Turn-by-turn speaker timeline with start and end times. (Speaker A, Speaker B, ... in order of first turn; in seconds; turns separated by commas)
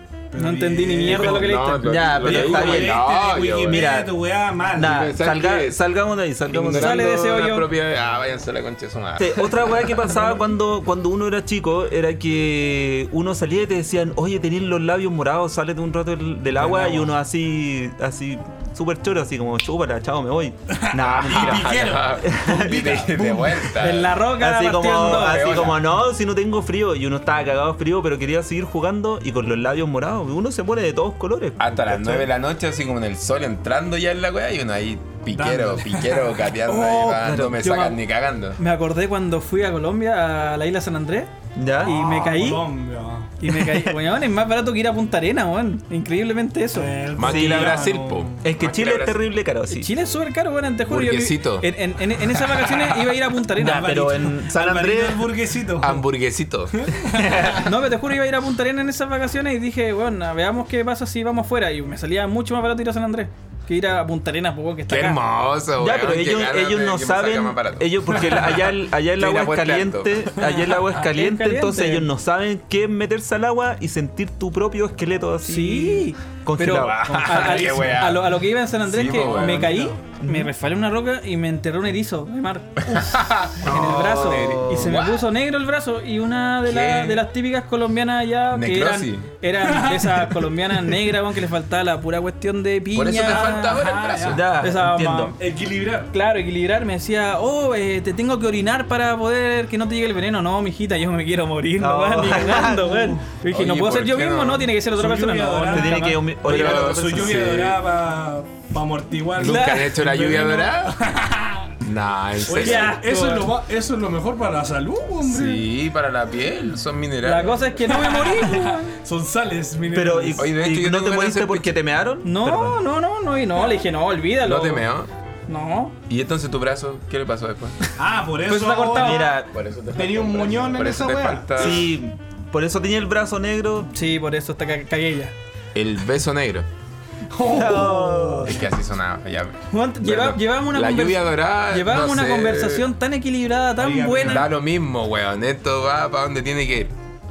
Speaker A: 0.3-1.6, Speaker B: 0.4-2.1, Speaker C: 1.1-3.0, Speaker D: 1.1-3.9, Speaker A: 2.2-5.0, Speaker C: 3.6-4.1, Speaker C: 4.7-7.1, Speaker D: 4.8-5.8, Speaker D: 6.5-10.0, Speaker B: 6.7-7.7, Speaker C: 9.2-23.1, Speaker A: 16.6-17.1, Speaker A: 20.7-23.8, Speaker D: 21.0-24.2, Speaker B: 23.8-25.8, Speaker C: 24.4-32.3, Speaker D: 25.0-25.8, Speaker D: 31.6-38.6, Speaker A: 35.3-36.7, Speaker B: 36.7-37.9, Speaker C: 37.2-37.8, Speaker B: 38.6-41.3, Speaker C: 41.6-42.2, Speaker A: 41.8-43.4, Speaker B: 41.8-42.6, Speaker B: 43.4-46.9, Speaker C: 43.5-44.0, Speaker A: 46.7-48.5, Speaker D: 47.1-49.2, Speaker C: 47.2-47.9, Speaker C: 48.4-49.9, Speaker B: 49.7-54.2, Speaker D: 50.9-51.7, Speaker A: 52.4-53.1, Speaker C: 53.6-55.3, Speaker A: 53.6-56.0, Speaker D: 55.8-56.9, Speaker A: 56.7-57.7, Speaker C: 57.1-57.7, Speaker B: 57.6-65.2, Speaker D: 64.9-68.5, Speaker C: 65.8-77.3, Speaker D: 69.1-70.3, Speaker B: 70.4-72.1, Speaker B: 75.4-93.8, Speaker D: 76.7-79.8, Speaker A: 77.1-78.1, Speaker A: 79.0-80.0, Speaker C: 80.2-80.5, Speaker D: 82.9-85.3, Speaker C: 83.7-85.0, Speaker D: 86.6-87.2, Speaker D: 88.5-89.3, Speaker A: 89.6-90.5, Speaker D: 92.9-94.5, Speaker A: 93.2-94.5, Speaker C: 94.3-95.3, Speaker B: 94.6-95.4, Speaker A: 95.4-96.1, Speaker B: 96.1-106.2, Speaker C: 101.8-103.2, Speaker D: 103.5-104.7, Speaker A: 104.9-111.8, Speaker C: 105.7-107.6, Speaker D: 106.4-107.8, Speaker D: 109.4-111.0, Speaker B: 109.4-109.9, Speaker D: 111.8-112.9, Speaker A: 112.5-115.7, Speaker B: 112.5-113.5, Speaker D: 115.2-117.6, Speaker B: 117.2-118.9, Speaker A: 117.8-120.5, Speaker C: 119.9-122.8, Speaker D: 120.4-121.8, Speaker B: 122.2-124.8, Speaker D: 124.4-125.1, Speaker B: 125.5-126.0, Speaker D: 126.1-127.8, Speaker A: 128.0-129.3, Speaker B: 128.5-129.4, Speaker C: 128.9-129.5, Speaker D: 129.6-131.9, Speaker A: 129.9-131.9, Speaker C: 131.6-133.9, Speaker B: 133.9-135.3, Speaker D: 135.7-136.7, Speaker A: 137.3-138.6, Speaker C: 137.4-138.6, Speaker D: 138.4-142.9, Speaker B: 139.7-144.5, Speaker A: 143.8-144.5, Speaker D: 144.2-146.9